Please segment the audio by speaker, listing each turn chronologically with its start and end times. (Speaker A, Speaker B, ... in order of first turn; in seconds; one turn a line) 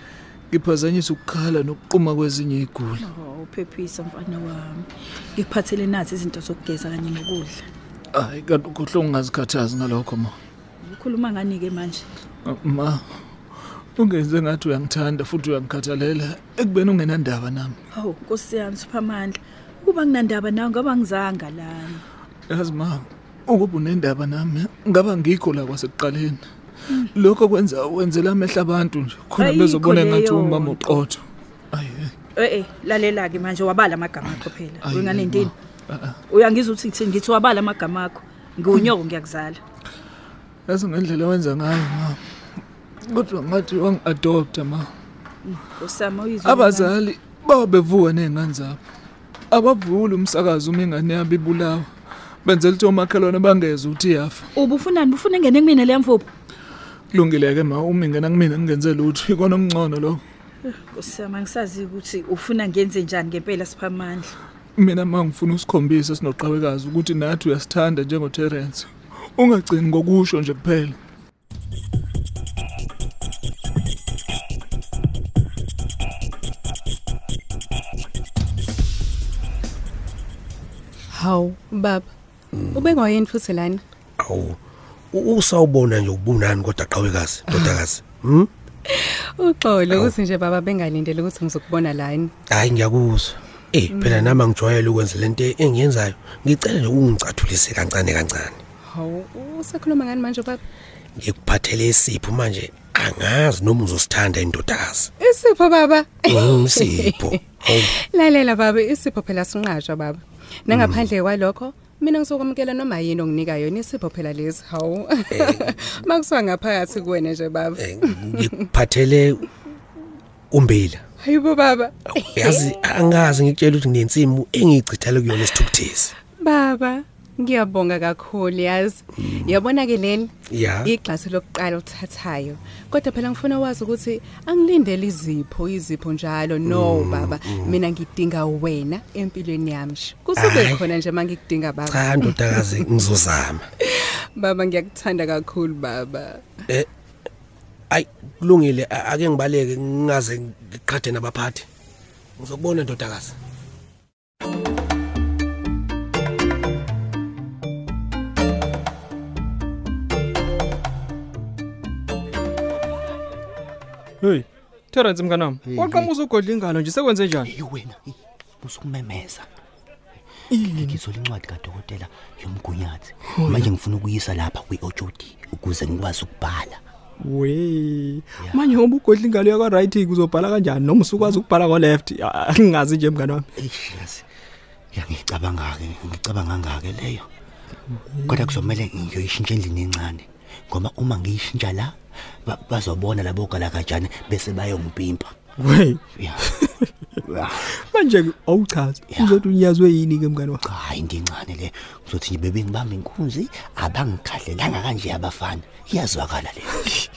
Speaker A: 0.5-3.0
Speaker B: 3.0-7.6
Speaker A: 8.1-10.3
Speaker B: 10.8-12.1
Speaker A: 12.4-13.0
Speaker A: 14.0-17.8
Speaker B: 17.9-22.0
Speaker A: 22.5-26.4
Speaker A: 27.1-32.1
Speaker B: 29.4-31.1
Speaker B: 32.4-35.5
Speaker A: 34.8-36.1
Speaker B: 36.3-39.6
Speaker A: 40.7-42.2
Speaker A: 43.0-44.9
Speaker B: 45.4-46.9
Speaker A: 46.4-48.8
Speaker A: 49.5-51.9
Speaker A: 52.4-54.5
Speaker B: 54.6-56.2
Speaker A: 57.1-60.2
Speaker B: 60.7-64.3
Speaker A: 64.8-71.0
Speaker C: 81.1-82.1
Speaker D: 82.6-82.9
Speaker C: 82.7-83.8
Speaker D: 84.2-84.6
Speaker D: 85.1-88.5
Speaker C: 87.5-87.8
Speaker C: 88.9-92.3
Speaker D: 92.5-98.6
Speaker C: 93.9-94.4
Speaker C: 98.8-100.6
Speaker D: 101.2-105.1
Speaker C: 105.2-118.6
Speaker D: 106.2-107.9
Speaker D: 110.7-111.0
Speaker D: 115.3-115.7
Speaker D: 117.8-119.4
Speaker D: 120.5-121.0
Speaker C: 121.2-122.7
Speaker D: 122.1-126.1
Speaker C: 126.4-142.7
Speaker D: 130.5-130.9
Speaker D: 136.7-137.8
Speaker D: 140.3-140.8
Speaker D: 141.9-143.6
Speaker C: 143.8-146.5
Speaker D: 147.9-151.7
Speaker D: 152.4-153.3
Speaker E: 164.2-167.5
Speaker F: 165.6-166.1
Speaker F: 167.4-169.5
Speaker E: 170.5-171.0
Speaker F: 170.7-176.8
Speaker E: 173.3-173.7
Speaker E: 177.2-183.5
Speaker F: 178.4-178.8
Speaker F: 183.6-184.2
Speaker F: 184.9-187.3
Speaker E: 188.1-188.5
Speaker F: 188.2-195.3
Speaker E: 195.6-196.7
Speaker F: 196.2-196.5
Speaker F: 197.2-197.8
Speaker E: 197.6-200.6
Speaker F: 199.1-199.4
Speaker F: 200.6-206.9